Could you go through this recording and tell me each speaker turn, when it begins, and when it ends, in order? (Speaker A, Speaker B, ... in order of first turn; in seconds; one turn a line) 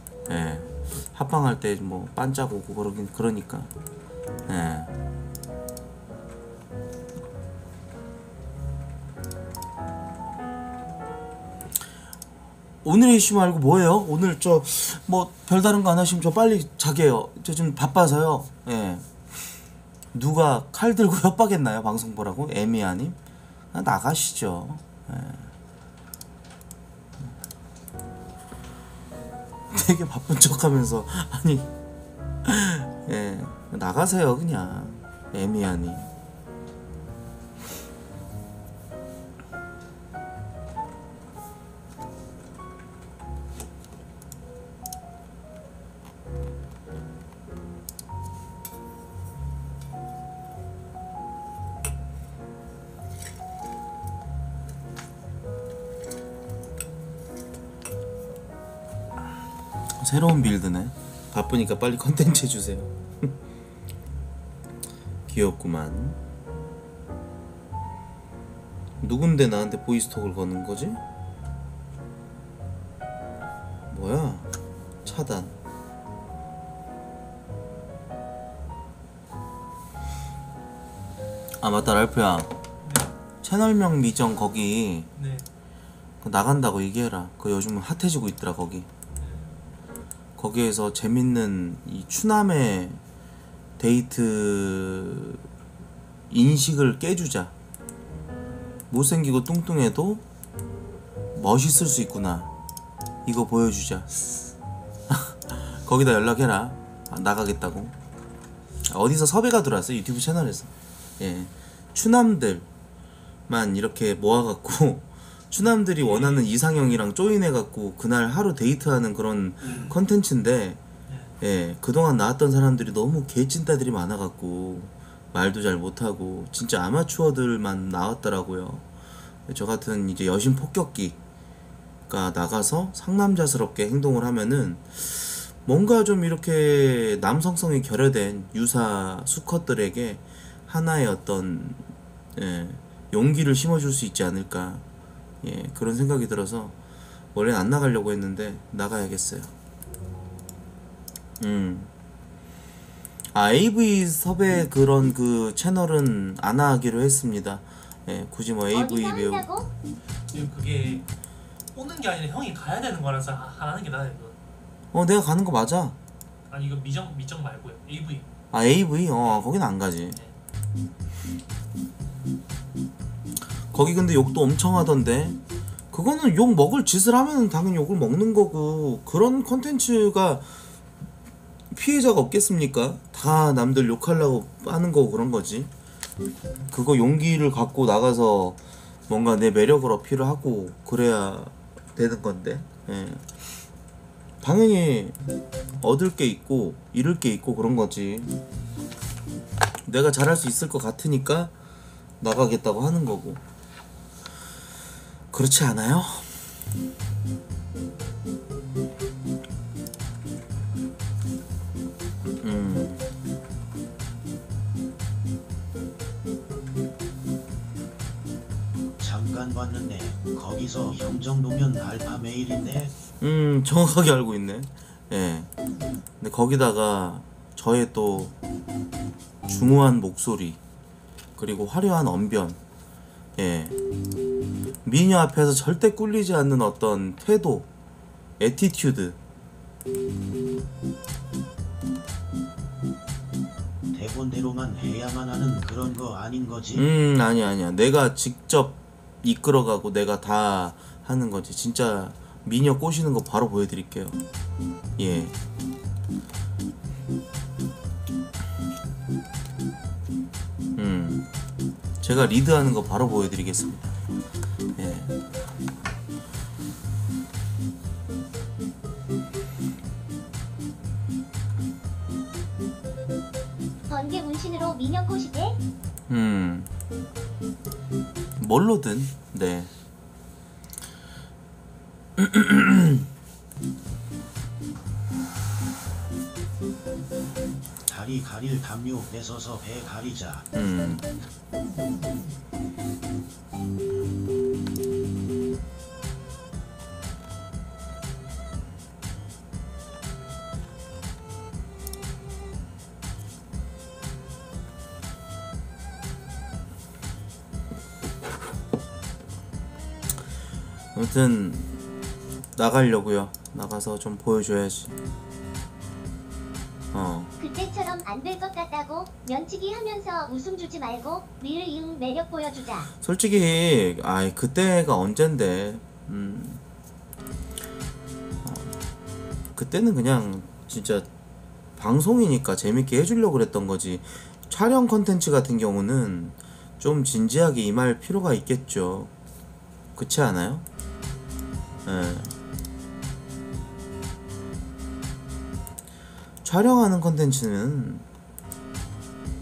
Speaker A: 0.3-3.7
Speaker A: 4.5-4.9
Speaker A: 12.8-19.1
Speaker A: 20.1-23.2
Speaker A: 23.7-25.5
Speaker A: 29.7-31.7
Speaker A: 32.4-36.1
Speaker A: 60.0-63.3
Speaker A: 65.3-66.2
Speaker A: 69.0-71.0
Speaker A: 73.9-74.5
Speaker A: 75.0-75.5
Speaker A: 81.6-82.6
Speaker B: 82.8-83.1
Speaker A: 83.4-85.1
Speaker B: 85.2-85.5
Speaker A: 86.2-88.9
Speaker B: 89.2-89.5
Speaker A: 90.4-93.0
Speaker A: 93.8-95.5
Speaker A: 96.3-97.5
Speaker A: 98.9-100.2
Speaker A: 101.3-102.5
Speaker A: 103.3-104.1
Speaker A: 105.1-107.9
Speaker A: 108.9-112.7
Speaker A: 113.5-120.8
Speaker B: 116.0-116.9
Speaker B: 119.6-120.0
Speaker B: 121.1-121.3
Speaker A: 121.4-128.8
Speaker A: 129.5-131.2
Speaker A: 132.1-141.8
Speaker A: 142.4-144.8
Speaker A: 145.4-146.8
Speaker A: 147.3-149.5
Speaker A: 151.4-151.9
Speaker A: 153.3-159.5
Speaker C: 158.7-159.7
Speaker B: 160.3-161.1
Speaker B: 161.7-164.4
Speaker A: 164.9-166.0
Speaker B: 166.5-168.3
Speaker A: 168.5-170.2
Speaker B: 169.2-169.5
Speaker A: 173.7-175.4
Speaker A: 175.9-180.5
Speaker A: 181.7-185.7
Speaker A: 186.7-193.2
Speaker A: 194.4-195.2
Speaker A: 195.8-198.3
Speaker A: 199.9-201.5
Speaker A: 202.2-203.4
Speaker A: 205.3-206.3
Speaker A: 212.4-213.0
Speaker D: 219.0-222.9
Speaker A: 223.2-225.5
Speaker A: 226.2-228.3
Speaker A: 229.5-230.6
Speaker A: 231.4-232.6
Speaker A: 233.4-233.8
Speaker A: 234.8-237.7
Speaker A: 238.4-239.2
Speaker D: 243.9-246.9
Speaker A: 246.8-254.2
Speaker A: 255.0-255.3
Speaker A: 260.8-261.3
Speaker A: 262.0-264.0
Speaker A: 264.8-265.1
Speaker C: 273.9-275.6
Speaker A: 276.1-276.7
Speaker A: 278.4-279.7
Speaker A: 282.2-283.0
Speaker D: 287.9-290.5
Speaker A: 290.5-291.1
Speaker A: 310.9-311.7
Speaker A: 312.6-314.9
Speaker A: 316.9-317.3
Speaker C: 317.4-322.9
Speaker A: 323.0-326.6
Speaker A: 328.4-328.7
Speaker A: 329.6-331.1
Speaker A: 331.8-339.1
Speaker A: 340.0-340.6
Speaker A: 341.9-342.3
Speaker A: 346.4-348.1